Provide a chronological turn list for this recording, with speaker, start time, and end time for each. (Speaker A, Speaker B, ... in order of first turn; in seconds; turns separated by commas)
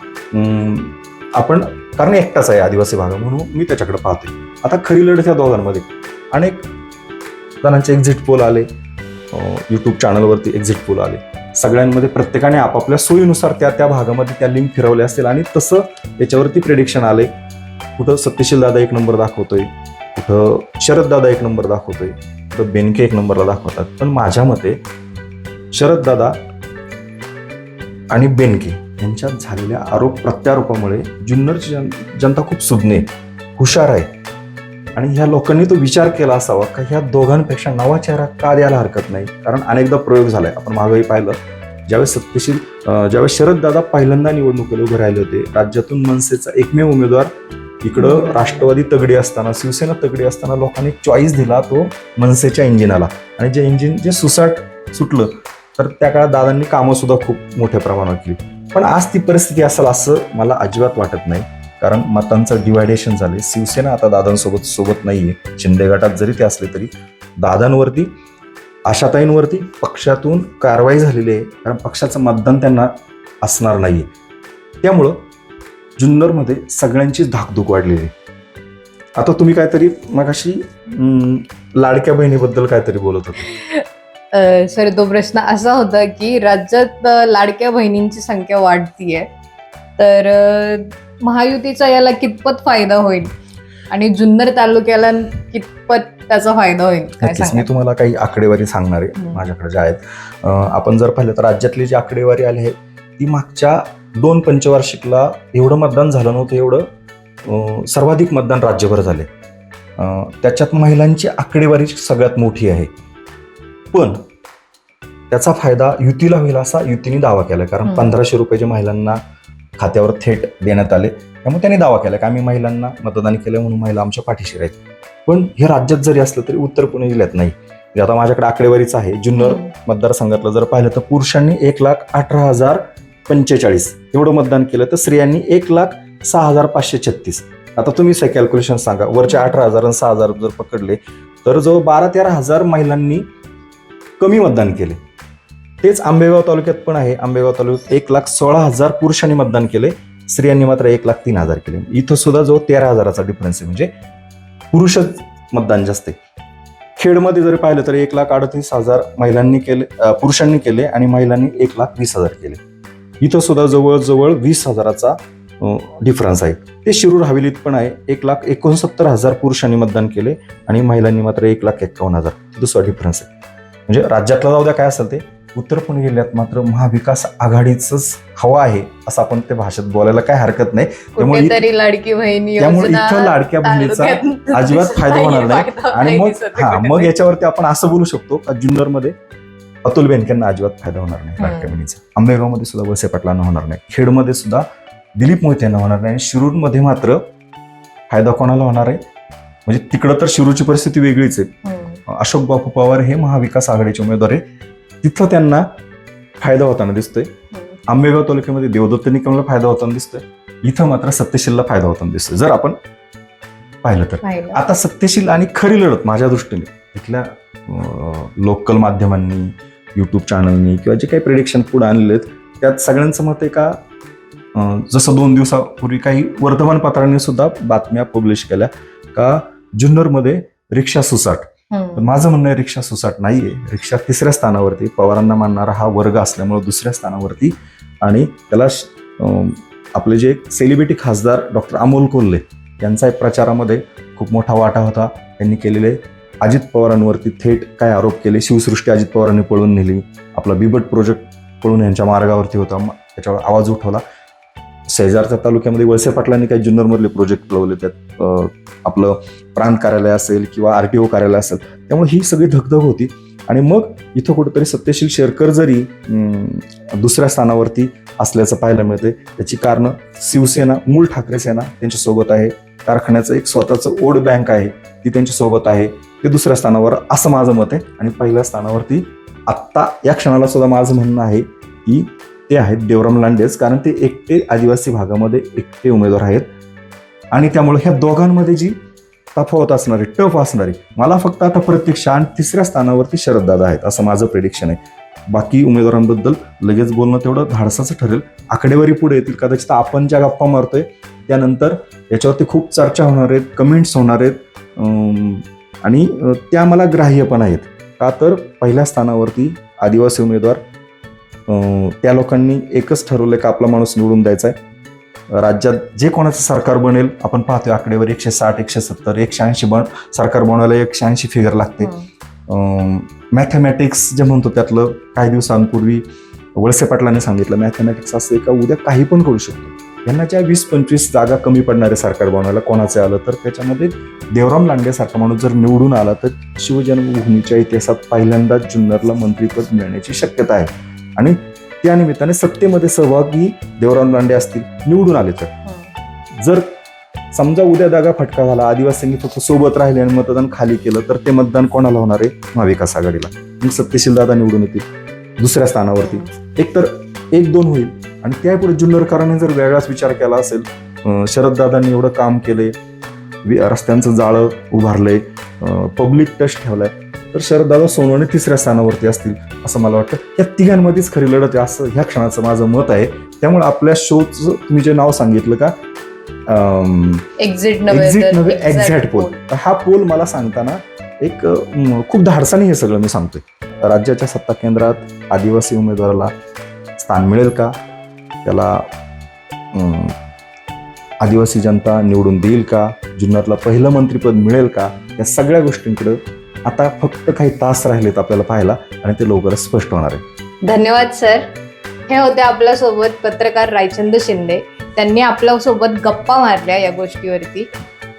Speaker A: 0.3-6.7, Speaker A: 7.6-8.7, Speaker A: 9.3-17.3, Speaker A: 18.0-24.8, Speaker A: 25.7-26.4, Speaker A: 28.1-34.1, Speaker A: 35.0-47.3, Speaker A: 47.8-68.1, Speaker B: 48.0-48.5, Speaker A: 68.9-72.9, Speaker A: 73.4-74.1, Speaker A: 74.8-75.2, Speaker A: 76.0-78.1, Speaker A: 79.2-83.5, Speaker B: 83.5-83.8, Speaker B: 84.3-89.3, Speaker B: 90.0-93.3, Speaker B: 93.9-97.7, Speaker A: 97.2-106.9, Speaker A: 107.4-109.3, Speaker A: 110.0-112.9, Speaker A: 113.9-114.2, Speaker A: 115.3-119.2, Speaker B: 117.8-118.1, Speaker A: 119.8-143.3, Speaker B: 129.4-129.7, Speaker B: 139.3-139.6, Speaker A: 144.2-145.0, Speaker A: 145.8-153.9, Speaker A: 154.7-156.2, Speaker A: 157.0-162.6, Speaker A: 163.2-173.3, Speaker A: 173.9-181.6, Speaker B: 181.2-187.1, Speaker A: 182.6-189.1, Speaker A: 189.8-194.6, Speaker B: 191.4-191.7, Speaker A: 195.2-197.2, Speaker A: 198.1-199.0, Speaker A: 199.7-201.5, Speaker B: 201.6-202.0, Speaker A: 202.1-204.4, Speaker A: 205.0-205.7, Speaker A: 206.4-207.3, Speaker B: 207.5-207.8, Speaker A: 207.9-212.8, Speaker A: 213.8-223.8, Speaker B: 214.2-214.6, Speaker A: 224.5-254.0, Speaker B: 231.7-232.1, Speaker A: 254.9-286.5, Speaker A: 287.3-288.8, Speaker A: 289.3-310.6, Speaker A: 311.5-314.6, Speaker A: 315.3-321.9, Speaker B: 321.8-322.1, Speaker A: 322.5-326.0, Speaker A: 326.6-345.5, Speaker B: 345.6-345.9, Speaker A: 346.4-346.7, Speaker A: 347.3-354.9, Speaker A: 355.4-362.7, Speaker B: 356.0-356.3, Speaker A: 363.4-375.7, Speaker A: 376.5-377.2, Speaker B: 377.4-379.4, Speaker A: 377.9-386.3, Speaker A: 387.0-387.7, Speaker A: 388.4-388.9, Speaker A: 389.7-390.1, Speaker A: 391.2-400.2, Speaker B: 400.6-401.5, Speaker B: 402.1-407.7